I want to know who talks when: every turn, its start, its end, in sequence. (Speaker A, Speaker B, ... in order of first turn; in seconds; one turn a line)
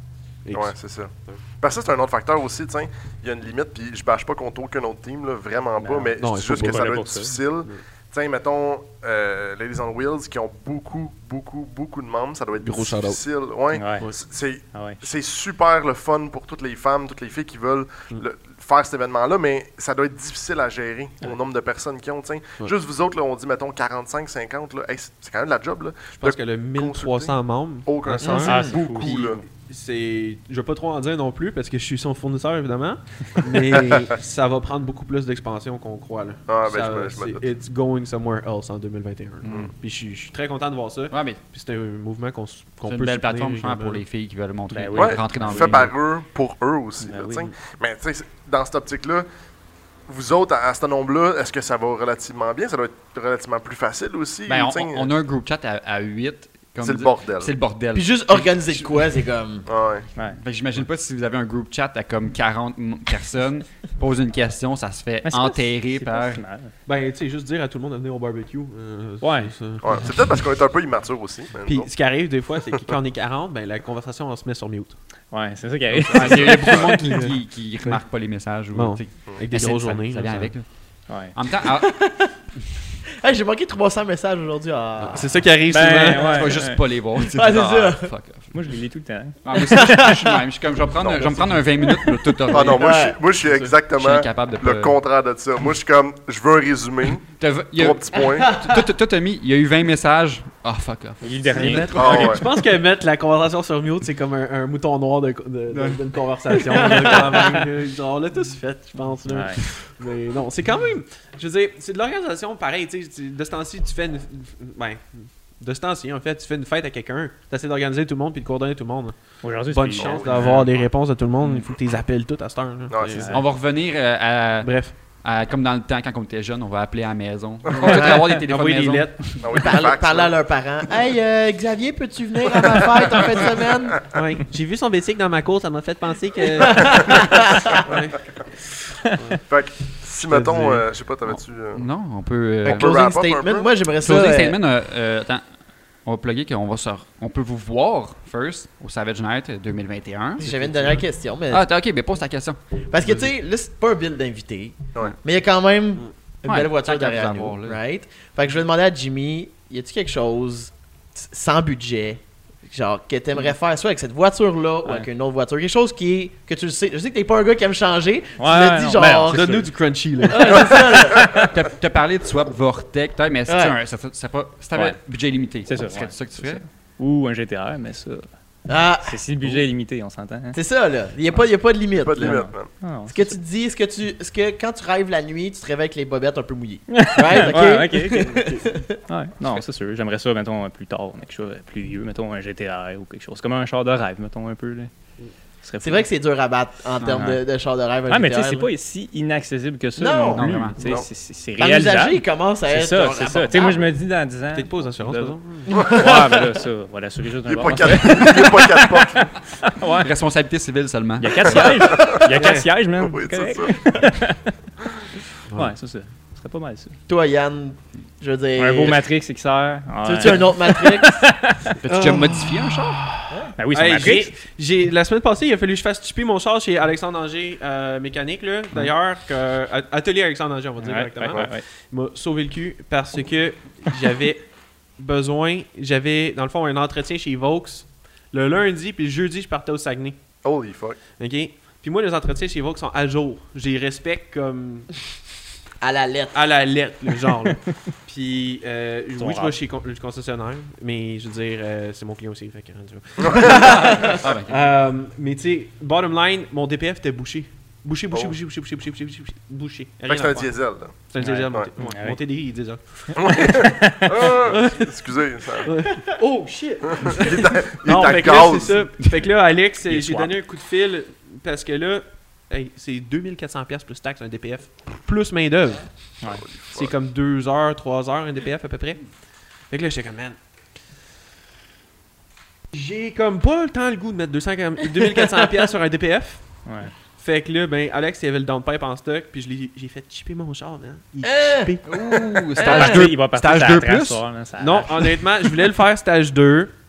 Speaker A: 0.4-1.4
Speaker B: 0.5-29.4
Speaker C: 5.8-7.4
Speaker A: 6.2-7.0
Speaker A: 12.6-13.2
Speaker C: 13.7-14.1
Speaker A: 13.9-14.2
Speaker C: 14.6-15.0
Speaker A: 26.2-44.0
Speaker D: 28.2-28.7
Speaker C: 28.4-28.8
Speaker B: 36.5-37.4
Speaker E: 39.4-39.7
Speaker B: 39.5-39.7
Speaker E: 41.1-41.4
Speaker E: 42.9-45.9
Speaker C: 44.7-45.9
Speaker B: 44.9-49.3
Speaker C: 47.0-47.5
Speaker B: 50.1-55.1
Speaker E: 54.5-59.0
Speaker B: 56.8-57.5
Speaker D: 57.9-59.6
Speaker B: 59.7-60.1
Speaker E: 60.3-66.4
Speaker C: 65.2-66.7
Speaker A: 66.8-70.3
Speaker C: 69.2-69.5
Speaker B: 69.8-71.9
Speaker A: 71.6-75.0
Speaker C: 75.3-77.0
Speaker A: 76.1-78.0
Speaker E: 76.1-82.2
Speaker A: 78.7-80.5
Speaker C: 81.1-81.3
Speaker D: 81.8-82.3
Speaker D: 83.2-85.4
Speaker A: 85.0-86.6
Speaker C: 85.7-86.8
Speaker E: 86.2-88.7
Speaker D: 87.1-88.1
Speaker C: 88.5-90.1
Speaker E: 89.4-93.0
Speaker D: 89.5-90.2
Speaker B: 90.9-91.6
Speaker B: 92.5-98.7
Speaker D: 92.6-93.2
Speaker A: 93.4-93.7
Speaker E: 93.9-95.0
Speaker E: 97.4-102.3
Speaker D: 98.4-98.7
Speaker C: 101.2-102.3
Speaker A: 101.5-123.5
Speaker B: 101.9-102.4
Speaker E: 105.7-107.6
Speaker D: 106.7-107.1
Speaker C: 109.3-109.6
Speaker C: 119.4-120.7
Speaker B: 120.0-120.6
Speaker E: 121.4-121.7
Speaker B: 122.9-123.3
Speaker E: 123.3-129.4
Speaker A: 124.6-124.9
Speaker D: 127.9-128.3
Speaker A: 128.0-129.5
Speaker B: 129.4-130.3
Speaker D: 129.5-134.0
Speaker A: 134.1-139.4
Speaker D: 136.7-137.2
Speaker B: 139.5-141.8
Speaker A: 139.9-140.9
Speaker E: 141.7-142.9
Speaker D: 142.6-144.6
Speaker B: 142.7-143.7
Speaker E: 144.0-145.5
Speaker E: 146.0-150.5
Speaker D: 150.4-151.6
Speaker E: 151.5-152.6
Speaker D: 152.8-169.7
Speaker A: 153.0-153.3
Speaker E: 156.4-157.8
Speaker C: 168.4-169.7
Speaker A: 169.3-170.8
Speaker D: 170.3-171.3
Speaker E: 171.3-176.6
Speaker D: 173.4-173.8
Speaker C: 175.6-178.2
Speaker D: 178.7-179.2
Speaker C: 179.0-180.6
Speaker D: 180.5-188.9
Speaker B: 182.0-182.7
Speaker C: 182.2-183.4
Speaker C: 186.9-188.5
Speaker A: 188.1-188.8
Speaker C: 189.1-194.9
Speaker C: 195.6-196.1
Speaker D: 195.8-198.7
Speaker E: 197.0-197.2
Speaker C: 198.1-208.7
Speaker D: 200.0-200.5
Speaker E: 200.3-200.8
Speaker B: 200.8-201.1
Speaker D: 201.6-203.9
Speaker A: 204.5-205.7
Speaker D: 205.7-206.2
Speaker B: 205.7-206.2
Speaker B: 207.4-209.4
Speaker C: 209.6-210.1
Speaker E: 210.0-211.7
Speaker C: 211.2-214.4
Speaker B: 211.9-212.2
Speaker A: 212.3-212.7
Speaker B: 213.0-214.0
Speaker C: 215.5-216.9
Speaker D: 217.1-219.0
Speaker C: 218.6-221.6
Speaker D: 220.0-221.3
Speaker E: 221.8-223.0
Speaker A: 221.9-240.2
Speaker C: 223.5-224.3
Speaker C: 230.8-231.6
Speaker B: 240.4-241.0
Speaker A: 241.2-245.1
Speaker D: 245.8-246.4
Speaker A: 246.3-264.9
Speaker C: 249.2-249.6
Speaker B: 253.2-253.7
Speaker E: 254.1-254.7
Speaker B: 260.1-261.7
Speaker C: 261.2-262.2
Speaker C: 263.1-264.1
Speaker B: 263.2-265.7
Speaker A: 265.6-280.4
Speaker B: 267.0-268.9
Speaker C: 269.9-270.3
Speaker C: 276.2-276.5
Speaker B: 276.4-276.9
Speaker A: 282.7-293.0
Speaker C: 286.6-286.9
Speaker D: 291.2-293.0
Speaker E: 291.8-294.2
Speaker C: 292.6-295.2
Speaker A: 294.6-296.7